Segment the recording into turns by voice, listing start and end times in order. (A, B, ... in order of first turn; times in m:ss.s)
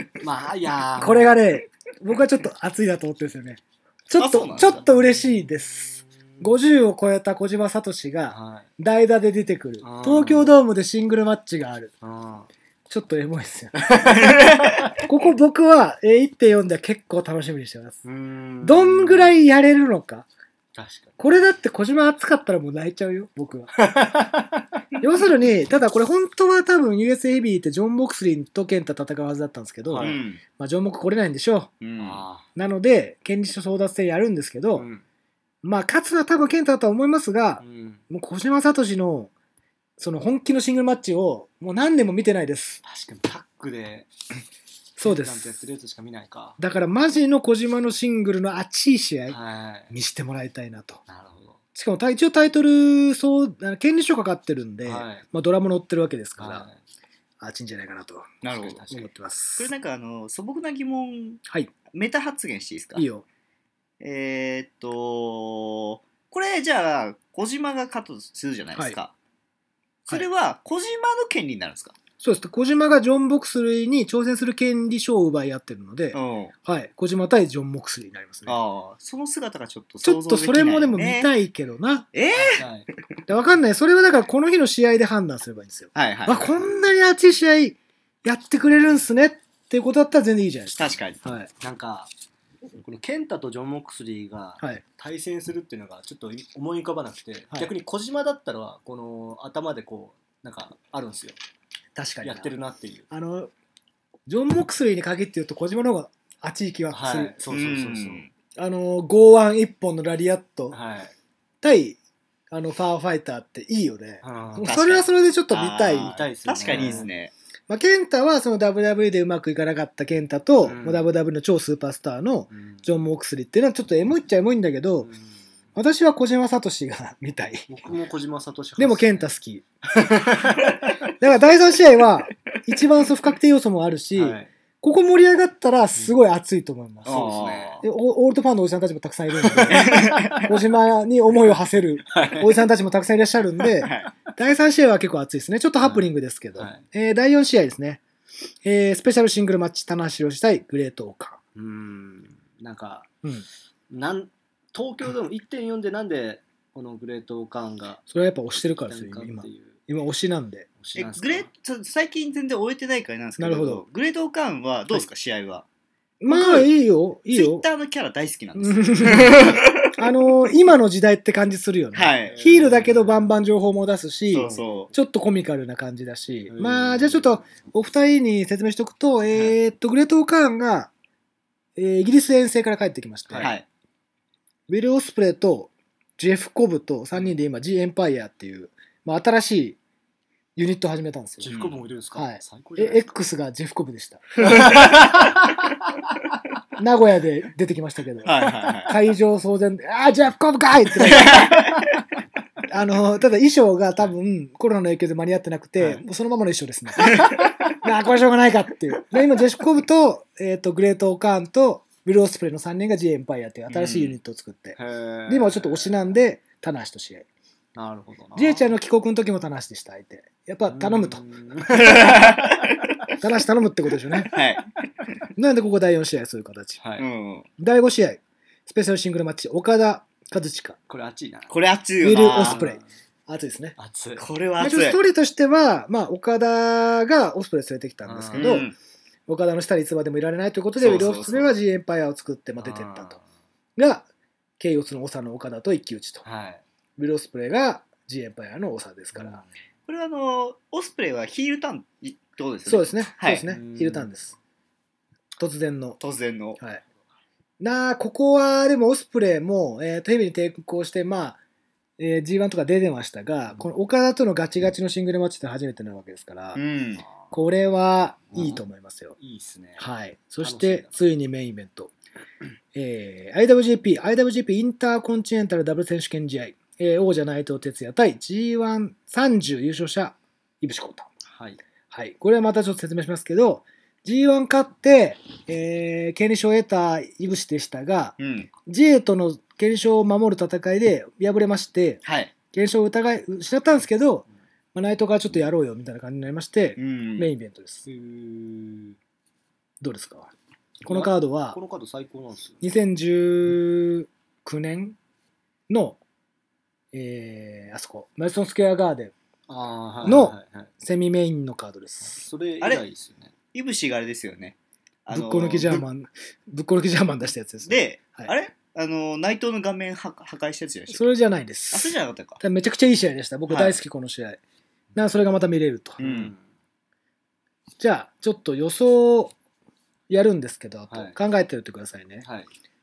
0:00.2-0:01.4 A
0:01.0-0:11.9 B
0:04.2-0:04.8 C
0:04.8-0:06.5 A
0:08.3-0:08.7 A
0:09.8-0:10.6 A
0:12.0-0:12.5 A
0:12.9-0:14.3 B
0:13.7-0:14.9 A
0:14.1-0:14.8 C
0:15.0-0:18.0 B
0:18.0-0:19.3 A
0:18.6-0:20.3 B
0:20.7-0:21.2 A
0:21.2-0:23.7 B
0:23.8-0:24.8 A
0:25.0-0:31.7 B
0:29.8-0:30.2 A
0:30.0-0:30.4 C
0:31.8-0:32.2 C
0:32.0-0:32.5 A
0:32.5-0:34.8 B
0:34.7-0:35.0 A
0:35.6-0:39.3 B
0:37.6-0:38.0 A
0:40.0-0:42.8 B
0:42.8-0:44.1 A
0:45.0-0:45.6 B
0:45.0-0:46.6 A
0:46.6-0:49.4 B
0:49.3-0:49.9 A
0:49.9-0:51.0 B
0:51.1-0:51.6 A
0:51.7-0:56.6 B
0:54.8-0:55.2 A
0:56.4-0:56.8 A
0:57.4-0:58.3 B
0:58.4-0:58.8 C
0:58.4-0:59.1 A
0:58.9-0:59.7 B
0:59.6-1:03.0 C
1:01.5-1:01.7 B
1:03.0-1:03.2 B
1:04.0-1:09.1 C
1:10.1-1:12.0 C
1:12.2-1:18.6 B
1:16.1-1:16.5 C
1:18.5-1:21.3 C
1:20.0-1:22.1 B
1:22.1-1:22.6 C
1:22.4-1:22.9 A
1:23.3-1:31.5 B
1:25.9-1:26.6 C
1:30.7-1:31.2 C
1:31.6-1:32.1 A
1:32.8-1:41.4 A
1:41.9-1:42.5 B
1:42.2-1:43.1 A
1:43.1-1:43.5 B
1:44.3-1:47.4 B
1:46.9-1:48.2 A
1:47.5-1:48.3 C
1:48.5-1:50.8 B
1:50.7-1:51.1 A
1:51.6-1:52.0 B
1:52.5-1:57.1 B
1:54.2-1:54.7 A
1:54.6-1:57.3 C
1:56.0-1:57.1 A
1:57.7-2:05.1 B
2:00.6-2:01.1 A
2:02.5-2:02.9 A
2:05.0-2:05.5 A
2:05.8-2:07.7 B
2:07.7-2:09.3 A
2:08.8-2:09.6 B
2:09.9-2:11.0 A
2:11.2-2:28.0 B
2:14.1-2:14.5 A
2:17.0-2:17.8 C
2:17.1-2:17.8 A
2:19.4-2:20.5 A
2:19.7-2:20.4 C
2:22.1-2:22.6 A
2:23.8-2:24.1 C
2:25.8-2:26.8 A
2:28.6-2:31.4 B
2:31.5-2:33.1 A
2:33.9-2:38.0 A
2:38.1-2:40.7 B
2:38.6-2:39.8 A
2:40.8-2:41.5 A
2:40.9-2:45.6 C
2:43.4-2:43.8 B
2:46.2-2:47.6 B
2:46.3-2:46.7 C
2:47.3-2:50.0 C
2:48.5-3:00.9 B
2:51.9-2:52.4 C
2:52.2-2:53.3 A
2:54.3-2:54.9 C
2:56.5-2:57.4 A
3:01.8-3:03.5 B
3:03.3-3:03.5 A
3:03.4-3:03.6 C
3:04.7-3:09.8 B
3:10.6-3:11.5 B
3:11.4-3:13.0 A
3:11.5-3:11.8 C
3:12.1-3:14.8 B
3:14.4-3:15.9 A
3:16.8-3:21.6 B
3:18.2-3:18.9 C
3:21.0-3:21.9 C
3:22.7-3:37.2 B
3:25.8-3:26.0 A
3:27.1-3:27.5 A
3:34.8-3:36.1 A
3:37.7-3:38.7 A
3:38.3-3:41.2 B
3:40.7-3:42.7 A
3:41.7-3:42.8 C
3:43.2-3:44.3 B
3:44.3-3:44.7 C
3:45.4-3:46.8 B
3:46.8-3:47.0 A
3:47.0-3:47.5 C
3:47.6-3:50.8 B
3:50.9-3:51.6 A
3:51.5-3:52.6 C
3:52.0-3:53.7 B
3:52.4-3:52.8 A
3:53.8-3:54.2 A
3:54.2-3:55.0 C
3:54.6-3:58.7 B
3:58.0-3:58.6 A
3:58.3-3:58.7 C
3:59.3-4:03.2 B
4:00.8-4:01.5 C
4:02.6-4:03.2 A
4:03.8-4:04.1 B
4:04.6-4:06.2 B
4:06.2-4:06.6 A
4:07.0-4:09.4 B
4:09.1-4:09.5 A
4:09.9-4:13.4 C
4:12.7-4:14.3 B
4:13.5-4:14.1 A
4:15.4-4:16.0 B
4:16.0-4:16.6 C
4:17.6-4:21.4 B
4:22.0-4:26.6 B
4:26.5-4:27.0 C
4:27.0-4:27.3 A
4:27.3-4:29.2 B
4:28.3-4:28.6 A
4:29.2-4:29.9 A
4:29.8-4:31.9 B
4:30.4-4:31.0 A
4:32.7-4:41.1 B
4:41.3-4:41.6 A
4:41.9-4:48.1 B
4:48.2-4:48.5 C
4:48.6-4:57.8 B
4:52.0-4:52.3 C
4:56.8-4:57.3 C
4:57.8-4:59.0 A
4:59.8-5:00.3 B
5:00.8-5:01.6 B
5:00.8-5:02.7 A
5:02.6-5:05.0 B
5:05.7-5:06.0 B
5:06.9-5:09.1 B
5:09.5-5:10.7 A
5:10.0-5:12.2 B
5:12.0-5:13.3 A
5:13.5-5:15.8 C
5:15.1-5:18.3 B
5:17.6-5:21.0 C
5:20.9-5:24.4 B
5:21.7-5:22.4 C
5:23.5-5:23.8 C
5:24.9-5:26.0 B
5:26.0-5:26.3 C
5:26.0-5:26.4 A
5:27.8-5:29.3 B
5:30.1-5:32.2 B
5:30.9-5:31.2 A
5:32.2-5:32.5 A